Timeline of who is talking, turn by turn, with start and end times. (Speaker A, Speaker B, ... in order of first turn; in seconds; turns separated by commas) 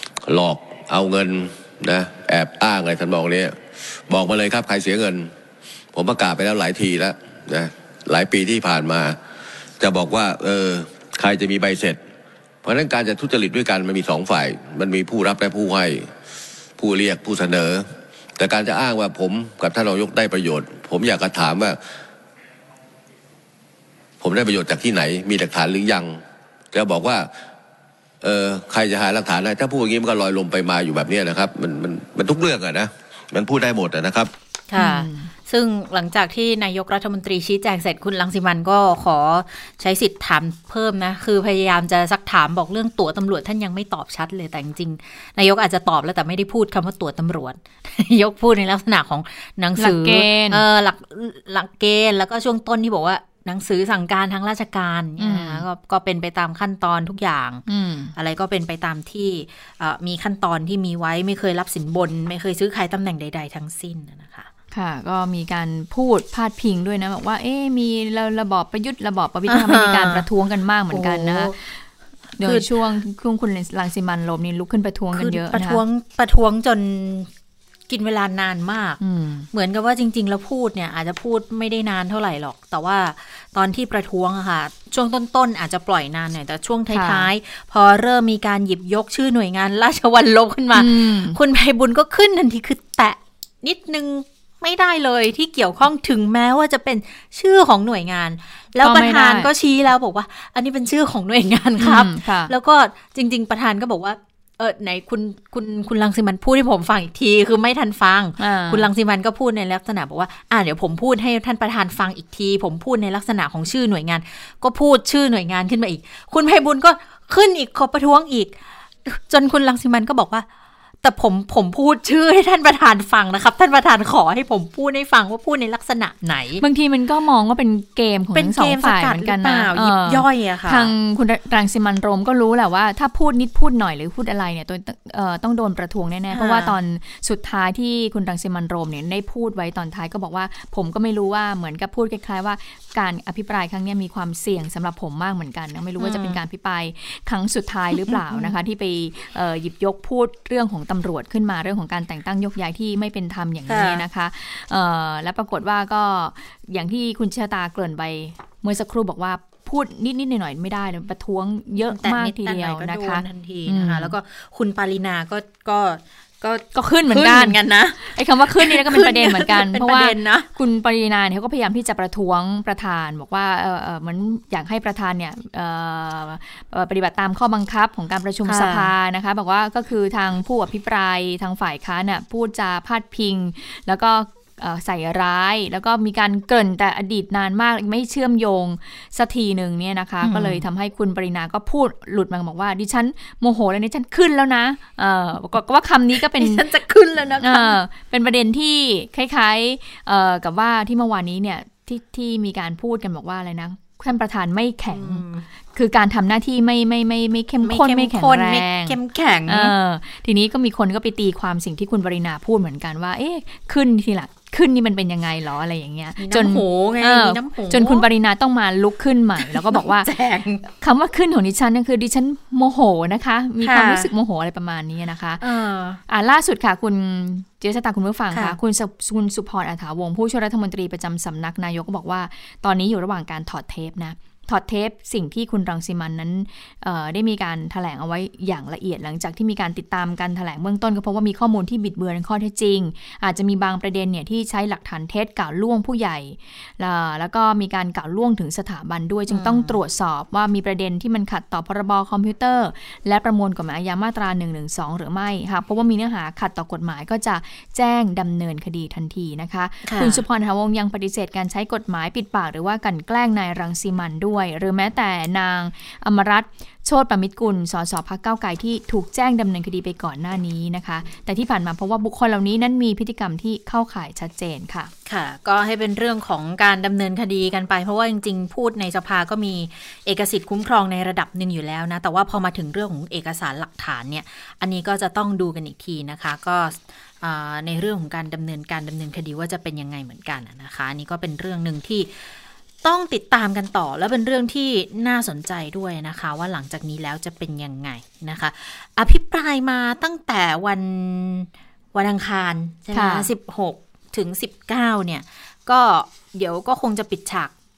Speaker A: 0.2-3.5, Speaker A: 4.1-5.3, Speaker A: 5.9-9.2, Speaker A: 9.8-12.0, Speaker A: 12.6-16.1, Speaker A: 16.8-21.8, Speaker A: 24.2-26.2, Speaker A: 26.7-27.3, Speaker A: 28.2-34.3, Speaker B: 34.7-64.5, Speaker C: 34.8-35.3, Speaker C: 49.8-50.6, Speaker C: 55.2-55.6, Speaker C: 57.7-58.1, Speaker C: 64.7-71.8, Speaker B: 69.5-70.2, Speaker B: 70.9-71.6, Speaker C: 72.4-75.8, Speaker B: 72.4-72.7, Speaker B: 75.1-77.3, Speaker B: 77.9-79.0, Speaker C: 79.0-79.5, Speaker B: 79.5-120.5, Speaker C: 86.9-87.3, Speaker C: 90.7-91.4, Speaker C: 98.8-99.5, Speaker C: 101.8-102.5, Speaker C: 108.4-108.9, Speaker B: 121.0-126.6, Speaker C: 126.6-164.1, Speaker B: 128.3-130.9, Speaker B: 136.3-136.8, Speaker B: 146.0-146.4, Speaker B: 147.9-148.6, Speaker B: 153.7-154.0, Speaker B: 161.9-170.5, Speaker C: 166.7-196.6, Speaker B: 178.4-178.9, Speaker B: 190.2-190.6, Speaker B: 196.2-197.8, Speaker C: 197.4-208.9, Speaker B: 204.9-205.4, Speaker B: 207.6-209.7, Speaker C: 209.5-220.1, Speaker B: 216.2-218.1, Speaker B: 219.4-220.6, Speaker C: 220.8-225.4, Speaker B: 223.6-224.1, Speaker B: 225.4-226.0, Speaker C: 226.1-274.9, Speaker B: 228.3-228.6, Speaker B: 249.3-249.8, Speaker B: 259.8-260.2, Speaker B: 275.1-307.5, Speaker C: 302.9-303.3